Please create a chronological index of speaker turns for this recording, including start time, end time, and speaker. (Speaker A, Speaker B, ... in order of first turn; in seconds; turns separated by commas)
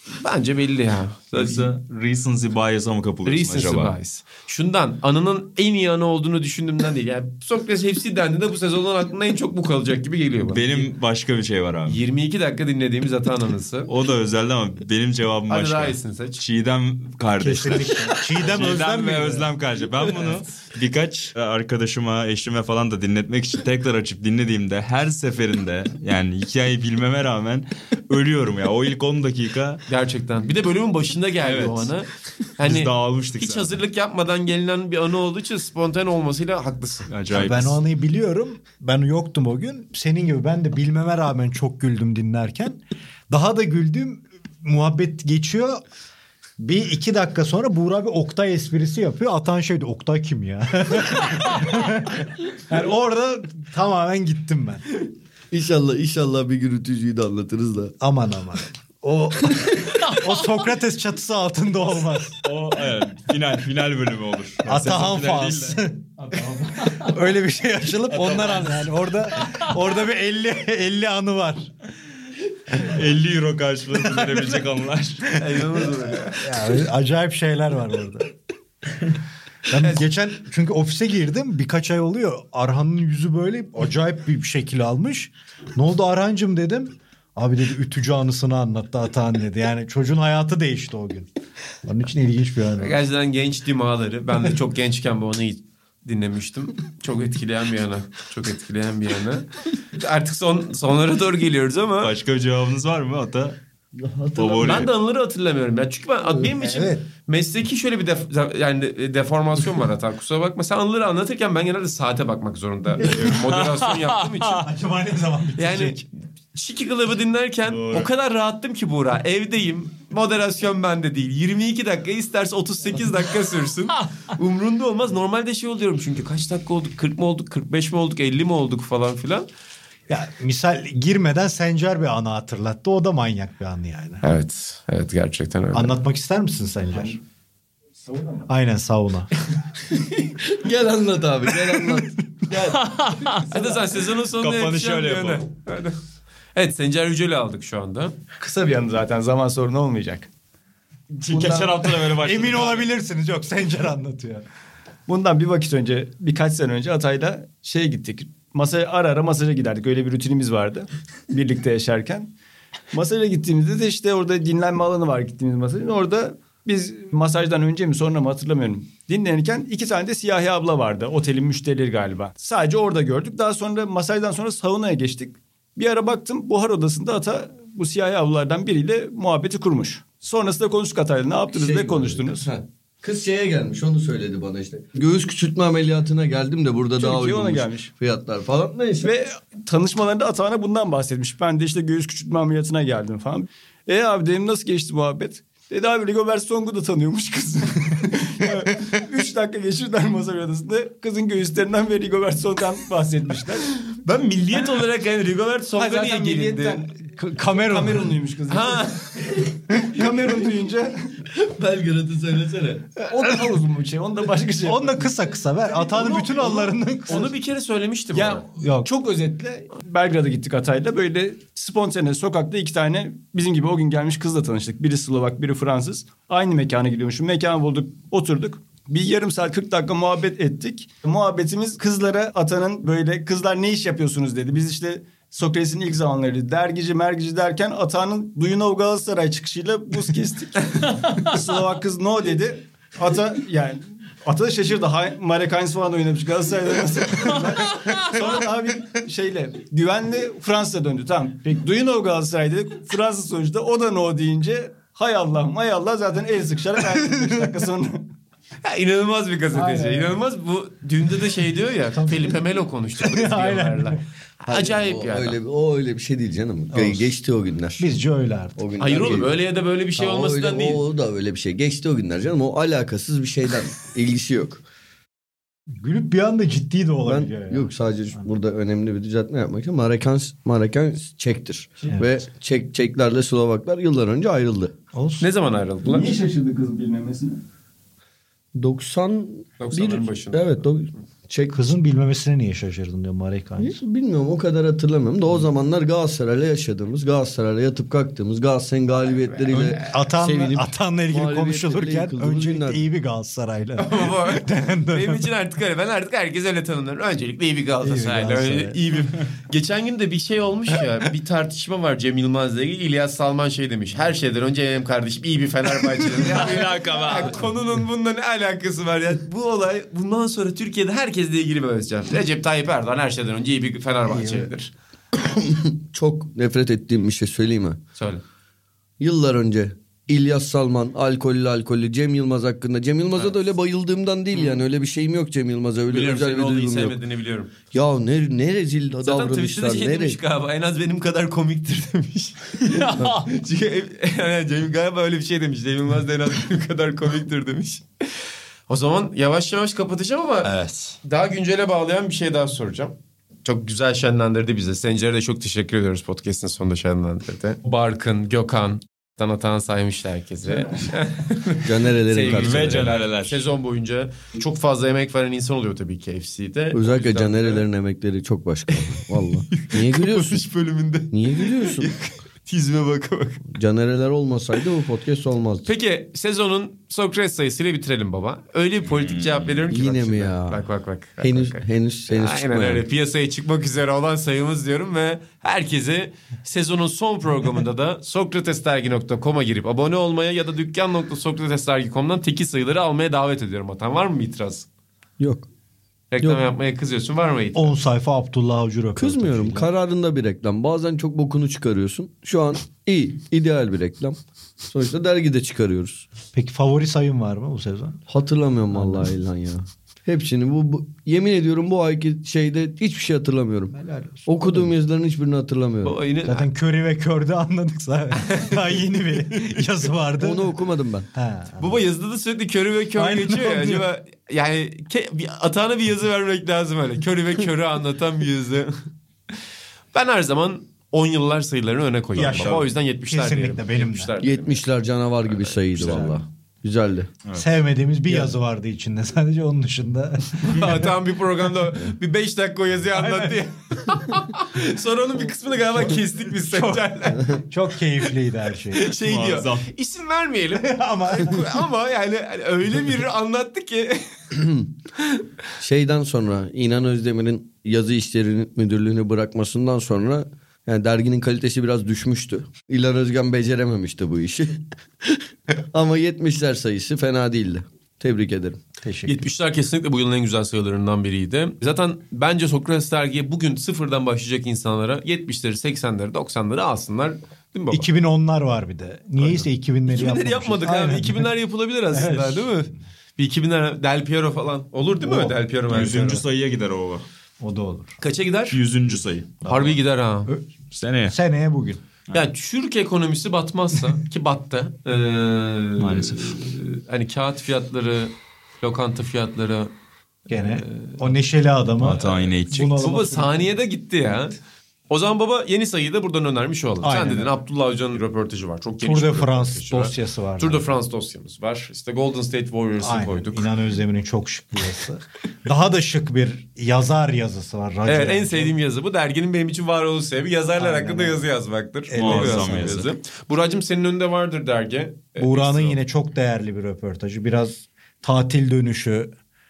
Speaker A: 0.2-1.8, Speaker B: 1.4-3.9, Speaker A: 3.2-10.9, Speaker B: 10.5-12.0, Speaker A: 11.9-13.9, Speaker B: 13.9-29.8, Speaker A: 15.5-16.4, Speaker C: 17.4-19.5, Speaker A: 29.9-37.1, Speaker B: 31.4-31.9, Speaker B: 32.6-33.8, Speaker B: 37.1-37.8, Speaker C: 37.3-45.8, Speaker C: 46.6-54.9, Speaker D: 55.5-58.0, Speaker C: 58.0-62.5, Speaker B: 62.4-65.8, Speaker C: 64.7-66.2, Speaker C: 66.8-71.7, Speaker B: 68.1-68.9, Speaker B: 72.7-75.4, Speaker C: 74.1-74.5, Speaker A: 75.3-76.5, Speaker C: 76.4-78.3, Speaker C: 79.7-91.3, Speaker C: 91.8-93.0, Speaker A: 92.8-102.1, Speaker B: 102.0-103.6, Speaker D: 104.0-104.9, Speaker B: 104.4-104.9, Speaker A: 104.6-114.7, Speaker C: 106.4-107.0, Speaker B: 113.0-114.6, Speaker C: 114.6-116.0, Speaker A: 115.6-129.5, Speaker B: 117.7-118.1, Speaker C: 130.1-134.2, Speaker A: 134.2-136.0, Speaker C: 135.7-137.2, Speaker E: 138.1-138.4, Speaker C: 138.5-139.3, Speaker D: 140.2-142.8, Speaker C: 141.5-141.9, Speaker B: 142.7-143.6, Speaker A: 143.5-146.0, Speaker B: 144.4-145.4, Speaker A: 146.6-148.2, Speaker E: 148.4-150.3, Speaker B: 151.2-152.9, Speaker D: 151.3-151.7, Speaker C: 152.2-154.4, Speaker E: 155.1-162.3, Speaker E: 162.9-182.4, Speaker D: 181.5-189.1, Speaker E: 187.0-187.9, Speaker E: 189.0-203.7, Speaker A: 204.0-206.8, Speaker E: 205.8-211.2, Speaker C: 207.2-208.2, Speaker A: 208.5-209.5, Speaker D: 211.3-212.9, Speaker E: 213.0-215.1, Speaker C: 214.6-217.3, Speaker A: 216.0-218.4, Speaker E: 218.1-258.1, Speaker C: 218.6-218.9, Speaker A: 258.6-265.4, Speaker E: 259.6-260.1, Speaker C: 262.0-262.3, Speaker C: 263.0-264.0, Speaker D: 264.5-267.9, Speaker C: 266.7-267.0, Speaker C: 267.8-268.6, Speaker D: 268.6-269.3, Speaker A: 268.8-270.8, Speaker D: 270.0-274.6, Speaker C: 275.8-278.3, Speaker D: 277.1-284.7, Speaker C: 284.9-285.3, Speaker A: 285.2-286.1, Speaker E: 285.8-287.4, Speaker D: 288.6-291.6, Speaker A: 289.6-290.5, Speaker C: 291.5-293.8, Speaker D: 293.6-302.8, Speaker A: 299.1-299.8, Speaker C: 299.5-305.3, Speaker A: 303.8-324.7, Speaker C: 307.8-308.8, Speaker B: 316.2-317.4, Speaker C: 324.1-324.5, Speaker D: 325.2-327.8, Speaker A: 328.0-328.2, Speaker D: 329.0-337.0, Speaker A: 334.3-334.6, Speaker A: 335.9-337.5, Speaker D: 337.7-340.2, Speaker A: 339.0-347.9, Speaker B: 342.6-343.3, Speaker A: 348.7-352.9, Speaker B: 350.4-351.0, Speaker A: 353.4-367.6, Speaker D: 361.6-363.0, Speaker B: 362.2-363.4, Speaker D: 366.7-370.4, Speaker A: 369.5-373.5, Speaker D: 371.1-371.9, Speaker D: 373.4-375.7, Speaker A: 375.7-394.7, Speaker B: 378.9-379.6, Speaker D: 379.7-380.6, Speaker D: 381.2-382.9, Speaker D: 395.2-395.5, Speaker A: 396.1-397.8, Speaker C: 397.5-399.7, Speaker D: 399.0-406.1, Speaker C: 406.3-408.0, Speaker D: 408.1-416.0, Speaker C: 408.7-409.1, Speaker C: 413.8-414.7, Speaker A: 415.8-416.5, Speaker C: 416.2-420.6, Speaker A: 418.2-419.6, Speaker D: 420.2-421.1, Speaker C: 421.1-421.8, Speaker A: 421.6-428.7, Speaker C: 423.0-423.9, Speaker A: 429.9-434.7, Speaker C: 432.1-434.1, Speaker B: 432.3-432.6, Speaker D: 434.2-437.1, Speaker A: 435.3-436.1, Speaker C: 435.8-436.2, Speaker C: 437.4-440.9, Speaker A: 440.4-447.4, Speaker C: 442.9-443.4, Speaker C: 446.4-448.9, Speaker A: 448.7-454.4, Speaker B: 448.9-449.7, Speaker C: 450.6-451.6, Speaker D: 455.6-468.6, Speaker C: 468.8-469.3, Speaker A: 469.1-477.9, Speaker C: 477.7-481.3, Speaker A: 479.2-486.2, Speaker C: 481.9-482.7, Speaker C: 485.0-486.2, Speaker B: 485.7-487.1, Speaker C: 487.4-487.9, Speaker A: 488.0-488.6, Speaker B: 488.5-489.6, Speaker A: 489.4-490.3, Speaker B: 490.7-491.2, Speaker C: 491.1-491.8, Speaker A: 492.1-499.7, Speaker B: 495.8-496.4, Speaker C: 500.3-503.4, Speaker A: 500.3-501.0, Speaker B: 501.8-502.9, Speaker A: 502.0-504.4, Speaker A: 504.9-513.5, Speaker C: 506.8-507.3, Speaker C: 508.8-510.7, Speaker C: 512.8-518.5, Speaker A: 517.9-525.8, Speaker C: 520.6-521.3, Speaker C: 521.9-522.9, Speaker B: 522.0-522.9, Speaker C: 525.2-529.1